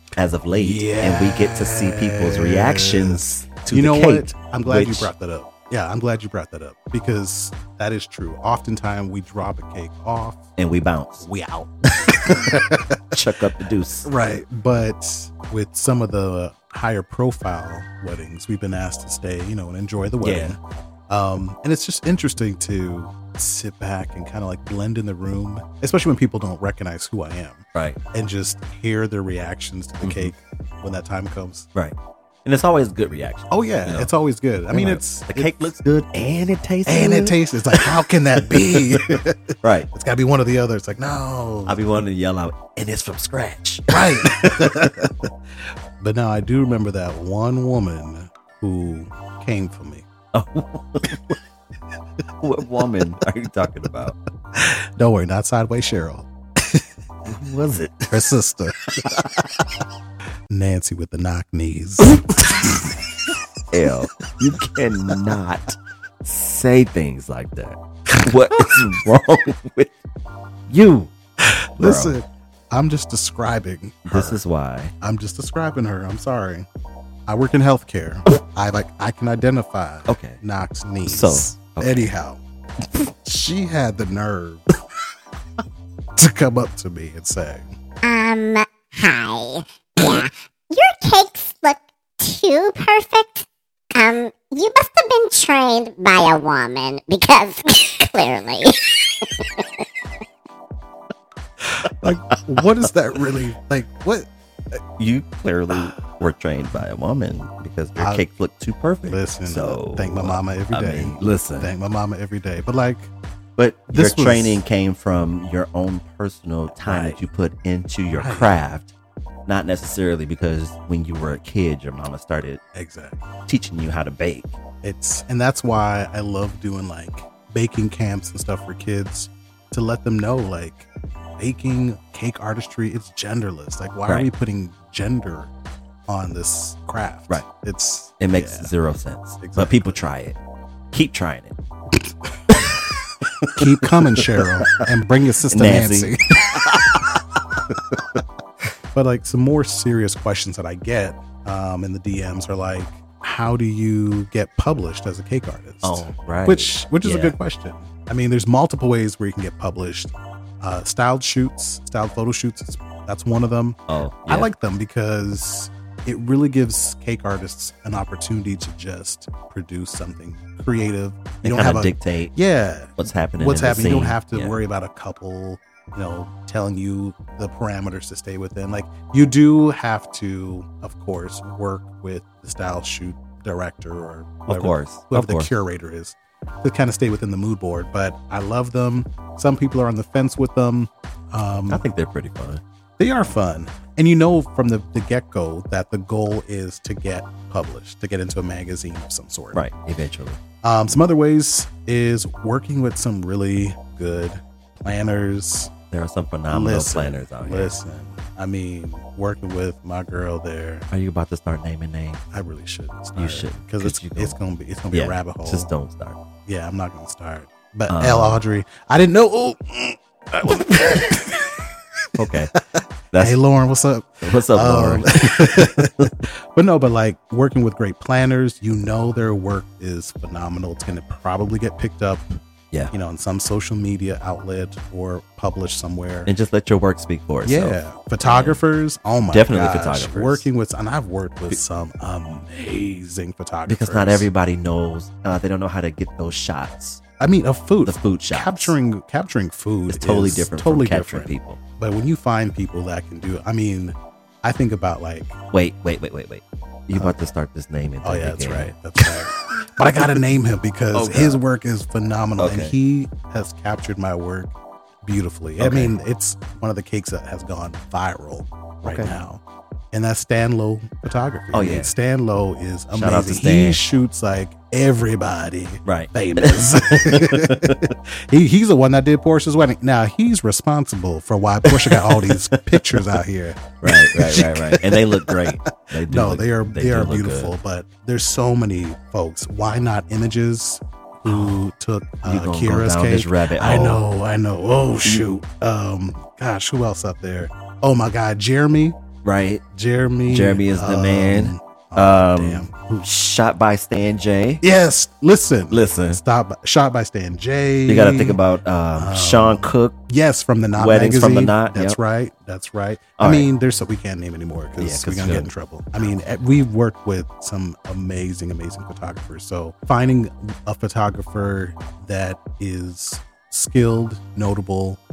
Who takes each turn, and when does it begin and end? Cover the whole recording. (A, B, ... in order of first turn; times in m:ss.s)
0:00.2-0:05.1 A
0:00.5-0:10.5 B
0:10.6-0:11.2 A
0:11.2-0:13.1 B
0:12.1-0:14.1 A
0:14.0-0:20.6 B
0:20.2-0:20.6 A
0:21.1-0:31.7 B
0:27.7-0:28.0 A
0:30.0-0:30.3 A
0:31.7-0:34.1 A
0:33.5-0:35.5 B
0:34.7-0:39.9 A
0:36.8-0:42.0 B
0:41.6-0:45.1 A
0:43.9-0:45.3 B
0:46.0-0:50.0 B
0:50.3-0:51.4 A
0:52.4-0:54.2 A
0:54.5-0:56.8 B
0:57.2-0:58.2 A
0:58.1-0:59.2 B
0:59.0-0:59.3 A
1:00.5-1:02.9 B
1:03.7-1:10.0 A
1:10.7-1:11.1 A
1:11.4-1:14.4 B
1:11.8-1:12.2 A
1:14.0-1:14.9 A
1:15.0-1:16.7 B
1:17.3-1:22.4 B
1:20.1-1:20.4 A
1:21.1-1:22.1 A
1:22.9-1:24.7 B
1:26.2-1:27.7 B
1:28.0-1:39.8 C
1:41.8-1:44.3 B
1:45.0-1:51.7 A
1:48.0-1:48.2 B
1:49.0-1:53.1 B
1:53.6-1:58.9 A
1:53.9-1:54.6 B
1:56.8-1:57.2 B
1:58.1-1:58.5 B
1:59.5-2:02.6 A
2:02.7-2:03.2 B
2:03.5-2:04.6 A
2:04.8-2:10.9 B
2:11.4-2:15.5 B
2:16.1-2:18.7 B
2:18.2-2:20.4 A
2:19.4-2:20.0 B
2:20.9-2:21.6 A
2:22.0-2:22.5 B
2:23.2-2:24.8 A
2:23.5-2:27.2 B
2:25.5-2:26.1 A
2:28.9-3:11.8 B
2:35.8-2:37.4 A
2:43.9-2:44.5 A
2:51.4-2:52.3 A
2:53.0-2:54.6 A
3:04.5-3:05.5 A
3:11.7-3:12.6 A
3:13.0-3:19.6 B
3:19.5-3:20.4 A
3:20.6-3:25.7 B
3:25.9-3:27.7 A
3:26.5-3:30.9 B
3:30.9-3:32.2 A
3:32.3-3:35.7 B
3:33.2-3:34.4 A
3:34.9-3:36.2 A
3:36.4-3:42.0 B
3:37.9-3:38.4 A
3:42.1-3:42.5 A
3:42.6-3:52.4 B
3:43.1-3:43.4 A
3:44.2-3:46.1 A
3:52.9-3:56.3 B
3:56.2-3:58.6 A
3:57.4-4:04.3 B
3:59.3-4:00.5 A
4:03.7-4:07.0 A
4:07.2-4:15.4 B
4:07.8-4:08.7 A
4:09.9-4:11.6 A
4:15.5-4:19.1 A
4:18.0-4:29.4 B
4:20.9-4:21.4 A
4:22.4-4:22.7 A
4:25.6-4:25.9 A
4:28.8-4:29.1 A
4:29.9-4:59.0 B
4:31.5-4:31.9 A
4:32.9-4:33.8 A
4:35.8-4:37.9 A
4:41.6-4:43.2 A
4:43.8-4:47.5 A
4:51.2-4:51.5 A
4:52.2-4:54.0 A
4:59.2-4:59.6 A
4:59.7-5:03.1 B
5:00.3-5:04.6 A
5:04.6-5:08.4 B
5:05.7-5:06.2 A
5:07.9-5:10.0 A
5:09.0-5:25.0 B
5:10.8-5:12.0 A
5:13.2-5:13.5 A
5:14.8-5:15.5 A